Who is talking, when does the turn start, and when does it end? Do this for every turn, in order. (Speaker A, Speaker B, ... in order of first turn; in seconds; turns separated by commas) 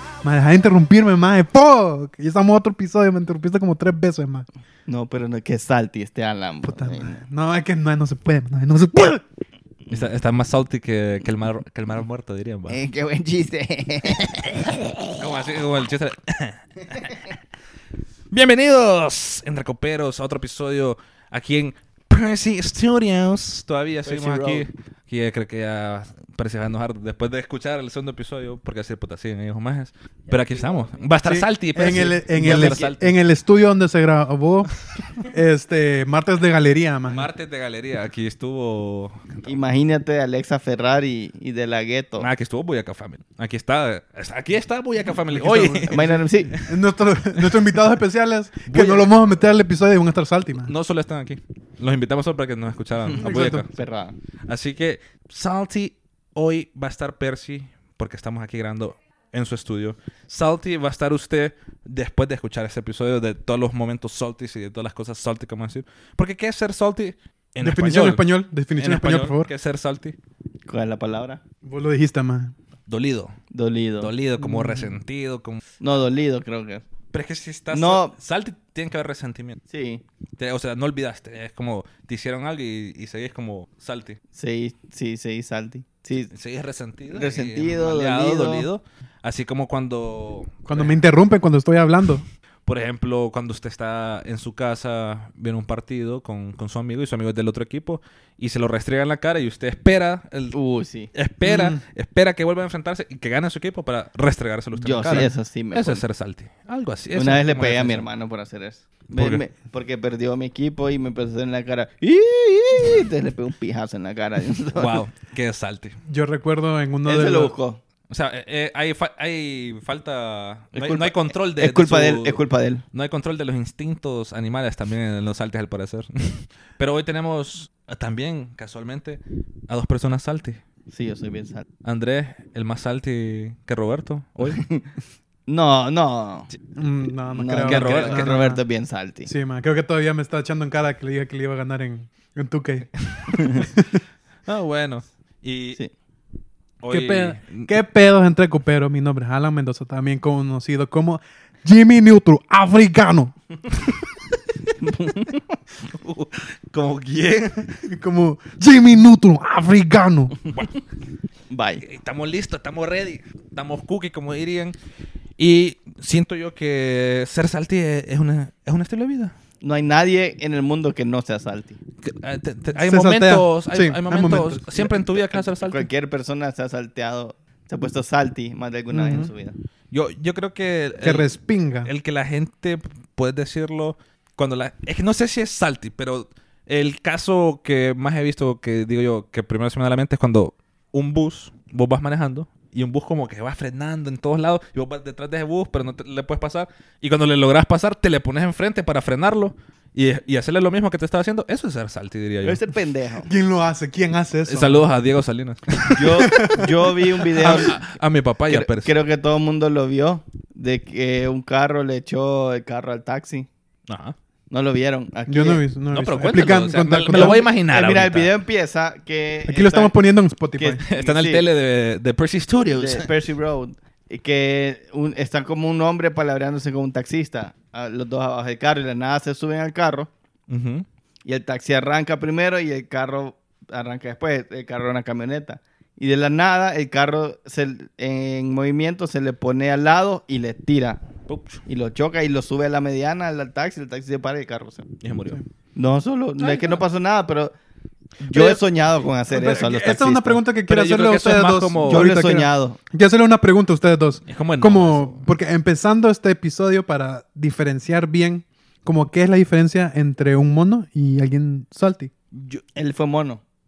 Speaker A: 0.2-4.5, Speaker B: 4.9-7.2, Speaker A: 6.6-9.2, Speaker C: 9.9-12.8, Speaker B: 12.7-14.8, Speaker C: 15.2-17.3, Speaker C: 18.3-33.1, Speaker B: 24.1-24.7, Speaker B: 30.3-31.0, Speaker A: 31.2-34.7, Speaker B: 32.3-32.9, Speaker A: 35.2-37.3, Speaker C: 37.1-39.6, Speaker B: 39.4-42.3, Speaker C: 42.2-46.8, Speaker A: 45.3-50.7, Speaker B: 45.9-46.5, Speaker C: 47.4-47.8, Speaker C: 48.7-49.1, Speaker C: 50.6-53.7, Speaker A: 53.1-53.7, Speaker B: 53.1-54.1, Speaker C: 54.5-68.2, Speaker A: 67.6-69.5, Speaker C: 68.8-70.2, Speaker B: 70.7-71.4, Speaker A: 71.6-72.5, Speaker C: 72.9-73.4, Speaker B: 73.5-74.1, Speaker C: 74.0-75.6, Speaker A: 74.4-74.9, Speaker B: 75.8-76.8, Speaker C: 77.1-79.6, Speaker B: 77.7-78.1, Speaker B: 79.7-80.0, Speaker C: 80.4-84.2, Speaker B: 84.3-86.3, Speaker C: 86.3-91.0, Speaker B: 87.1-88.7, Speaker A: 90.7-92.2, Speaker C: 92.7-100.5, Speaker B: 100.5-101.1, Speaker C: 101.1-108.1, Speaker A: 101.4-101.8, Speaker B: 104.8-106.0, Speaker A: 105.0-105.3, Speaker B: 107.1-115.0, Speaker C: 109.1-109.4, Speaker C: 114.7-116.0, Speaker A: 116.1-117.5, Speaker B: 117.0-117.8, Speaker C: 118.1-122.4, Speaker B: 120.7-122.8, Speaker C: 122.9-130.6, Speaker B: 130.9-131.7, Speaker C: 131.8-134.6, Speaker B: 134.5-134.9, Speaker B: 135.5-136.5, Speaker A: 136.7-138.6, Speaker B: 137.3-139.3, Speaker C: 137.6-138.5, Speaker A: 139.2-142.9, Speaker B: 143.3-143.6, Speaker A: 143.5-144.0, Speaker C: 144.5-145.8, Speaker C: 146.8-147.7, Speaker A: 146.9-153.3, Speaker B: 154.8-155.6, Speaker C: 155.8-157.9, Speaker A: 157.8-160.3, Speaker C: 160.5-160.8, Speaker B: 161.5-161.8, Speaker C: 161.8-164.8, Speaker C: 165.4-169.3, Speaker B: 169.6-171.8, Speaker C: 172.0-175.9, Speaker A: 172.7-174.9, Speaker B: 175.3-179.6, Speaker A: 178.9-179.3, Speaker C: 179.9-181.3, Speaker A: 181.0-181.9, Speaker C: 181.8-202.6, Speaker B: 202.4-203.3, Speaker A: 203.2-204.9, Speaker C: 204.5-206.2, Speaker B: 205.9-207.8, Speaker A: 206.2-206.9, Speaker C: 207.3-208.9, Speaker B: 208.5-213.5, Speaker C: 213.9-214.2, Speaker B: 214.5-215.6, Speaker A: 215.3-217.4, Speaker C: 215.9-218.3, Speaker B: 217.1-219.9, Speaker A: 219.5-220.8, Speaker B: 220.6-221.5, Speaker C: 220.8-223.1, Speaker B: 222.7-230.1, Speaker C: 230.5-230.8, Speaker B: 231.2-241.0, Speaker C: 241.2-241.6, Speaker B: 241.7-244.9, Speaker C: 245.0-245.4, Speaker B: 245.7-247.5, Speaker C: 246.4-246.8, Speaker B: 248.2-250.4, Speaker A: 249.3-262.1, Speaker C: 250.7-252.1, Speaker B: 251.8-252.8, Speaker C: 254.3-255.2, Speaker C: 262.3-262.6, Speaker B: 262.7-263.4